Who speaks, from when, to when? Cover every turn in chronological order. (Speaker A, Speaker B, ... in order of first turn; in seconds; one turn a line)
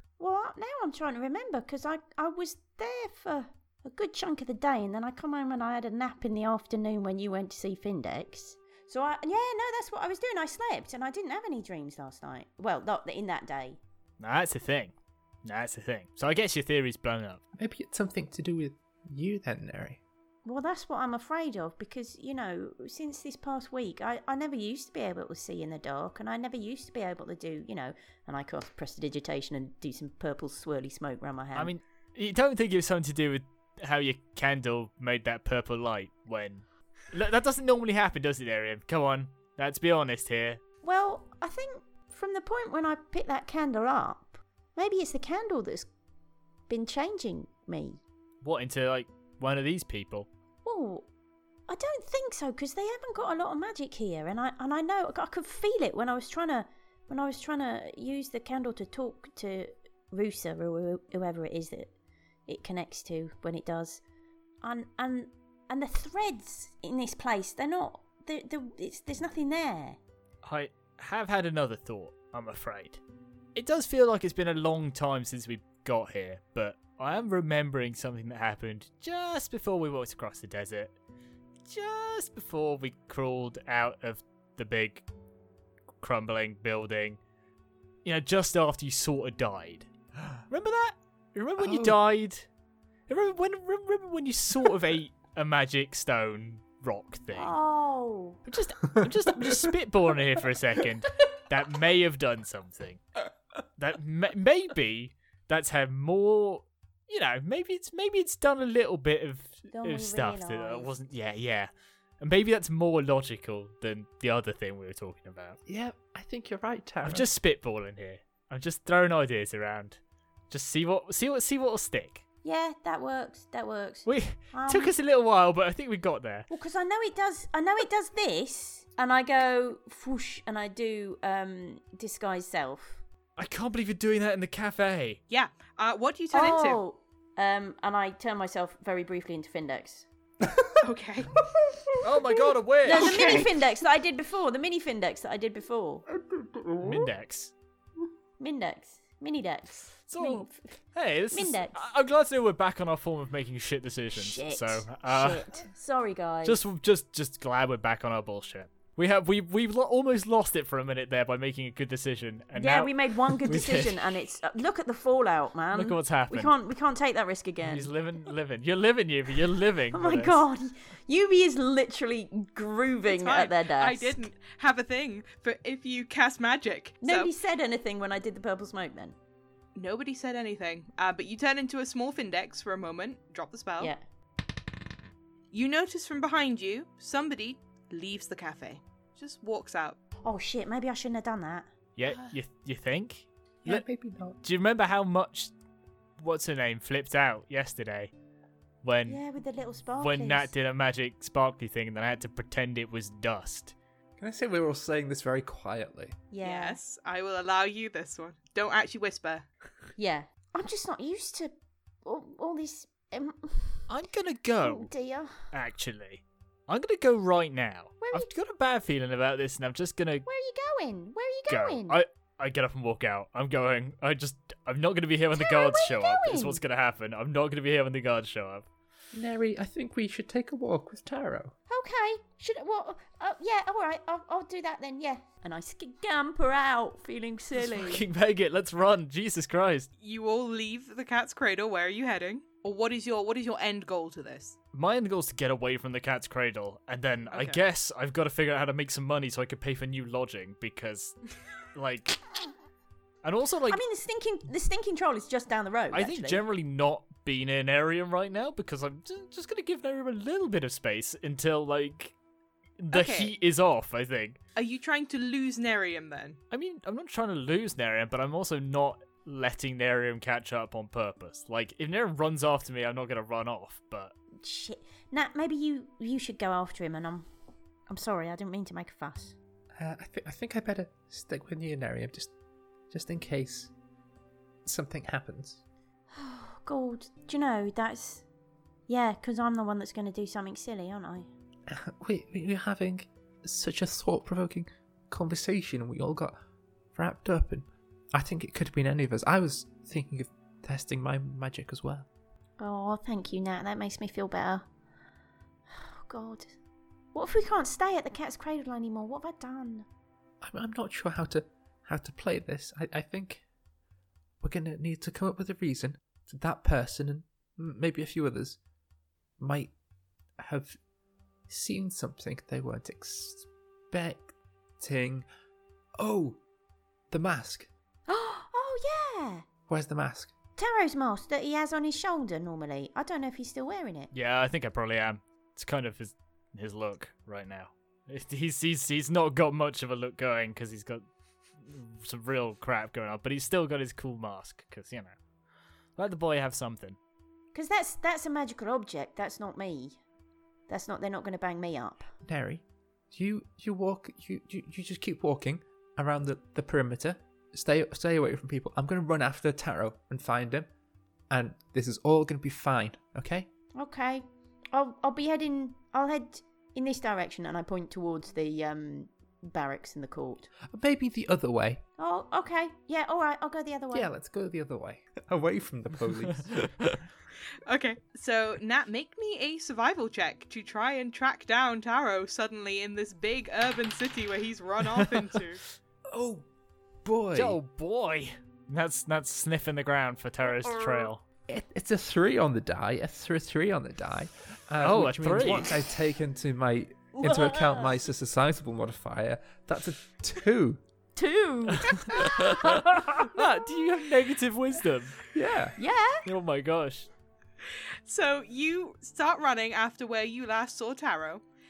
Speaker A: 0.2-13.8
Speaker B: 14.2-17.4
Speaker C: 17.6-20.0
Speaker A: 20.4-31.7
Speaker B: 31.6-40.6
Speaker A: 40.8-45.9
Speaker A: 46.7-48.0
Speaker B: 48.4-50.3
Speaker A: 50.6-51.1
Speaker A: 51.7-61.9
Speaker A: 62.5-64.0
Speaker A: 64.6-70.0
Speaker B: 70.4-73.0
Speaker B: 73.5-81.0
Speaker B: 81.7-85.0
Speaker B: 86.0-87.2
Speaker B: 88.0-89.9
Speaker B: 90.5-92.5
Speaker C: 91.6-92.0
Speaker B: 93.1-97.6
Speaker A: 97.3-98.4
Speaker B: 98.5-103.0
Speaker C: 98.9-99.6
Speaker B: 103.8-115.6
Speaker A: 109.7-110.9
Speaker C: 115.7-117.3
Speaker B: 117.0-120.0
Speaker B: 120.5-122.2
Speaker A: 122.4-124.9
Speaker B: 124.1-126.5
Speaker A: 126.5-133.0
Speaker B: 133.4-135.2
Speaker D: 135.3-136.8
Speaker A: 136.3-140.1
Speaker C: 140.5-140.8
Speaker D: 140.8-141.3
Speaker C: 141.4-142.4
Speaker B: 142.0-143.4
Speaker A: 142.8-146.1
Speaker D: 142.9-143.5
Speaker C: 146.1-147.1
Speaker B: 146.8-147.5
Speaker A: 148.4-150.7
Speaker B: 150.1-155.4
Speaker A: 151.3-151.8
Speaker A: 154.1-156.6
Speaker B: 156.4-164.2
Speaker A: 162.6-167.9
Speaker B: 165.7-166.5
Speaker B: 167.6-170.4
Speaker A: 169.9-174.2
Speaker D: 173.1-177.3
Speaker A: 177.0-179.2
Speaker D: 179.7-183.9
Speaker D: 185.5-190.0
Speaker A: 190.2-191.7
Speaker B: 191.9-193.8
Speaker C: 193.6-194.4
Speaker B: 194.4-195.5
Speaker B: 196.2-198.1
Speaker B: 198.8-199.2
Speaker A: 199.1-200.5
Speaker B: 200.0-203.7
Speaker C: 204.2-206.2
Speaker A: 206.3-206.8
Speaker D: 206.4-209.5
Speaker A: 210.0-211.5
Speaker A: 212.1-213.9
Speaker B: 213.9-214.9
Speaker A: 214.6-215.4
Speaker B: 215.5-220.3
Speaker A: 218.0-218.3
Speaker A: 220.3-222.0
Speaker B: 221.5-228.7
Speaker A: 225.3-226.6
Speaker C: 229.1-231.6
Speaker A: 231.7-238.1
Speaker B: 237.6-239.9
Speaker D: 240.0-244.6
Speaker B: 244.7-251.2
Speaker D: 247.3-247.6
Speaker B: 251.7-252.2
Speaker B: 253.2-253.8
Speaker A: 253.7-256.4
Speaker B: 255.9-262.1
Speaker B: 262.8-264.4
Speaker D: 262.9-263.3
Speaker D: 264.6-266.4
Speaker B: 266.5-274.1
Speaker A: 274.4-277.3
Speaker A: 277.9-279.4
Speaker C: 279.7-282.3
Speaker C: 282.9-283.7
Speaker C: 284.6-285.6
Speaker A: 286.1-288.2
Speaker A: 288.9-291.3
Speaker C: 291.7-296.4
Speaker C: 296.9-302.1
Speaker A: 302.6-304.7
Speaker A: 305.7-306.6
Speaker A: 307.1-309.9
Speaker C: 310.4-313.4
Speaker C: 314.4-318.6
Speaker C: 319.4-319.7
Speaker C: 320.4-320.8
Speaker C: 321.5-325.3
Speaker C: 326.0-326.4
Speaker C: 327.1-327.7
Speaker A: 328.1-329.4
Speaker C: 329.7-330.4
Speaker A: 330.6-334.1
Speaker B: 334.1-341.0
Speaker B: 341.6-345.2
Speaker B: 345.9-347.0
Speaker A: 347.5-350.0
Speaker A: 350.7-352.1
Speaker C: 352.2-360.7
Speaker C: 361.3-363.5
Speaker A: 363.7-370.5
Speaker C: 370.6-371.8
Speaker A: 372.0-374.1
Speaker C: 373.9-376.7
Speaker B: 376.3-377.0
Speaker D: 377.7-385.6
Speaker C: 386.1-386.5
Speaker C: 387.0-387.6
Speaker B: 387.3-391.2
Speaker A: 390.4-391.1
Speaker C: 391.5-400.8
Speaker B: 394.8-395.7
Speaker A: 397.2-397.9
Speaker A: 401.2-402.9
Speaker B: 401.7-405.2
Speaker C: 405.3-405.8
Speaker A: 405.8-406.3
Speaker B: 406.2-407.1
Speaker D: 407.7-411.4